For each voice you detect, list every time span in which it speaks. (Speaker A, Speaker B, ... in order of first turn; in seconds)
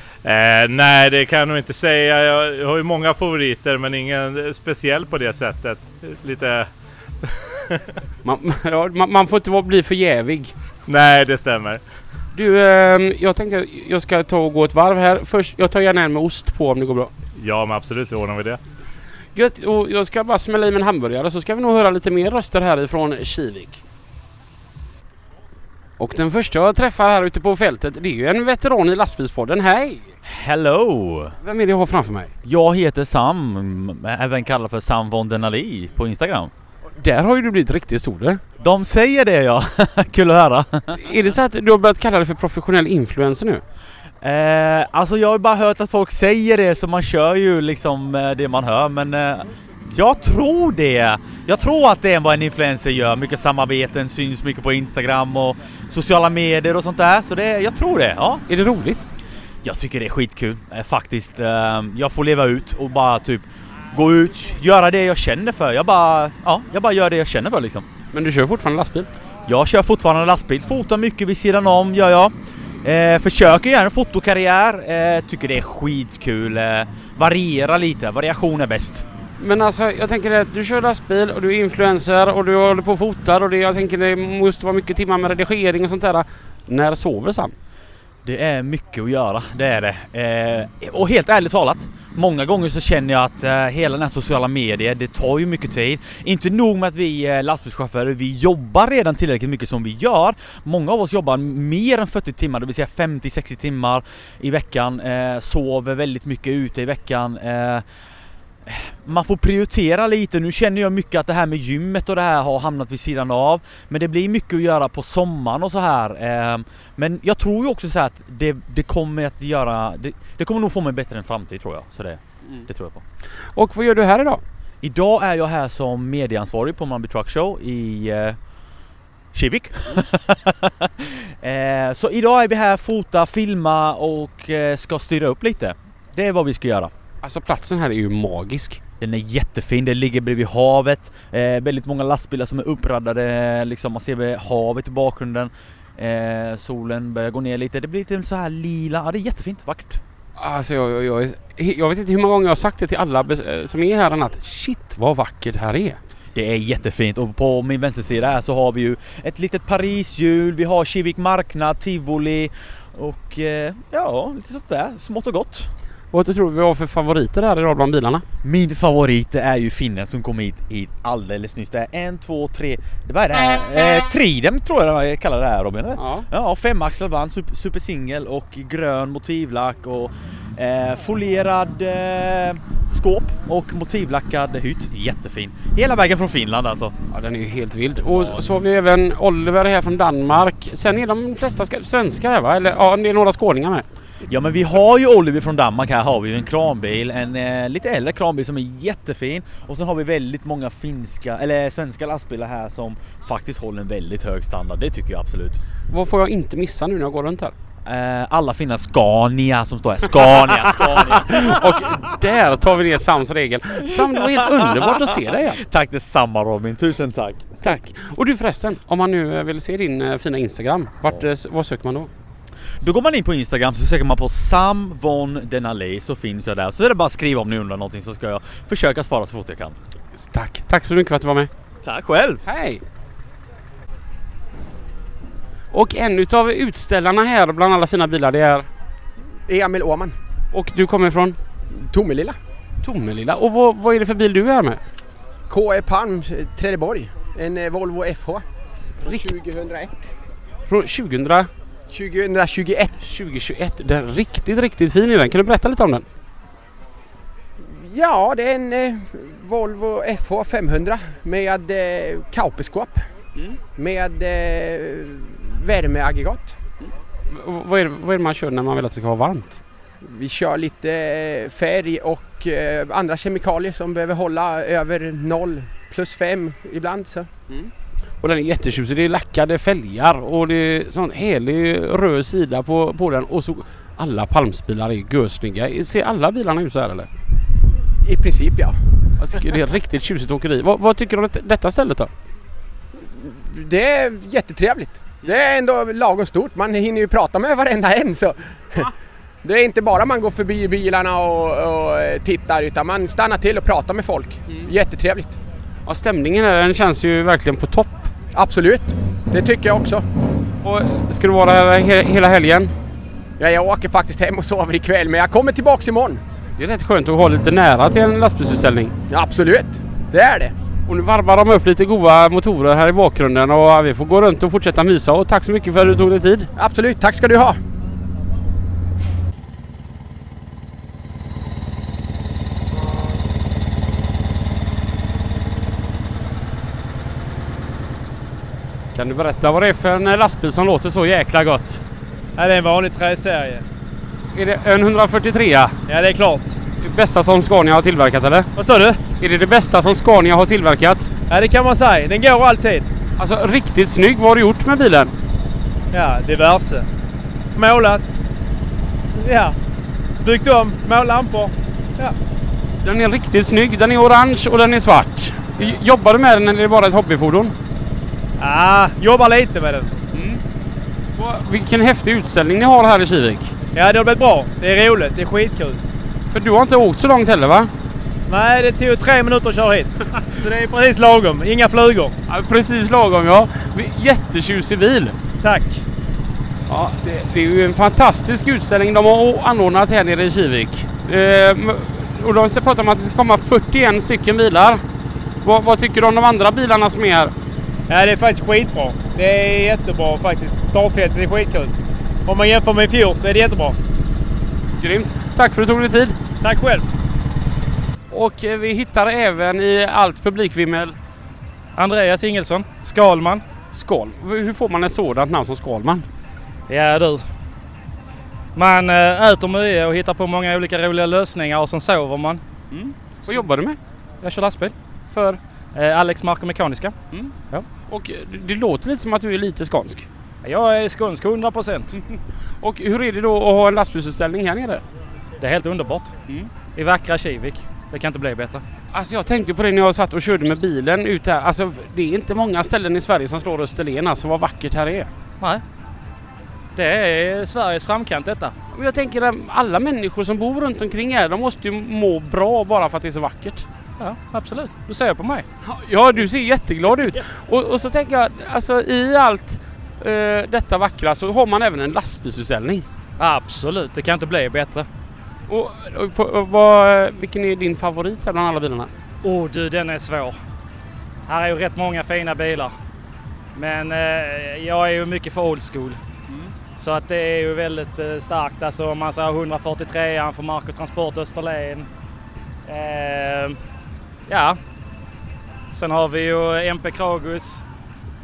Speaker A: 0.2-6.7, 7.2-7.8, 10.9-11.8, 17.4-18.6
Speaker B: 8.2-10.5, 12.3-17.1, 19.4-23.8, 26.0-30.1, 31.4-32.3, 37.0-38.5, 41.0-43.6, 58.5-59.0, 68.1-69.1, 79.4-87.5, 123.6-124.4, 137.2-138.8, 150.4-156.0, 166.1-168.2, 176.0-176.3, 187.1-193.8, 205.9-207.5, 211.1-215.6, 217.6-222.1, 230.2-231.5, 232.5-232.8, 235.7-238.7, 240.5-241.4, 242.8-244.8, 249.0-249.3, 250.7-251.5, 253.0-256.0, 267.3-269.6, 277.5-287.1, 289.2-292.1, 305.9-308.1, 310.6-312.7, 316.6-318.9, 320.9-326.5, 338.9-341.8, 344.3-345.8, 346.8-348.5, 349.2-351.1, 353.2-355.1, 362.8-367.5, 370.1-370.4, 371.2-373.5, 376.3-377.7, 382.3-385.2, 386.7-394.8, 395.4-397.3, 404.8-406.2, 408.1-411.0, 413.7-416.1, 422.7-423.8, 425.1-425.4, 427.9-430.1, 432.1-434.8, 438.9-445.1, 448.7-453.7, 455.6-462.9, 465.5-468.9
Speaker C: 30.2-31.4, 32.5-36.5, 38.6-41.0, 44.2-58.5, 59.6-67.9, 69.5-72.3, 72.8-79.0, 88.2-107.8, 108.7-123.0, 124.8-128.4, 129.3-136.9, 139.0-150.0, 156.3-165.7, 168.4-186.9, 194.3-205.6, 207.8-211.7, 213.8-217.5, 222.8-229.8, 231.8-232.4
Speaker D: 239.5-240.2, 241.8-242.3, 245.5-248.4, 249.0-250.1, 251.9-252.9, 257.6-263.0, 263.8-266.5, 270.0-277.3, 288.0-288.7, 293.0-298.9, 299.4-305.4, 308.4-310.0, 313.4-316.2, 319.1-320.5, 326.6-327.6
Speaker E: 342.4-343.6, 345.9-346.6, 348.5-349.0, 351.3-352.9, 355.9-356.9, 357.5-358.2, 359.1-359.5, 360.2-362.1, 368.4-369.9, 373.7-375.8, 378.3-382.2, 385.4-385.8, 397.9-401.7, 402.2-403.8, 406.4-406.8
Speaker F: 411.8-413.4, 416.7-417.2, 418.6-422.4, 424.2-424.8, 425.7-426.9, 430.4-432.0, 435.4-436.1, 436.7-438.6, 446.8-448.5, 454.0-455.5, 463.2-464.9, 469.2-470.4, 471.3-472.7, 473.5-476.0, 476.8-481.9, 482.7-483.6, 484.3-484.6, 485.7-487.6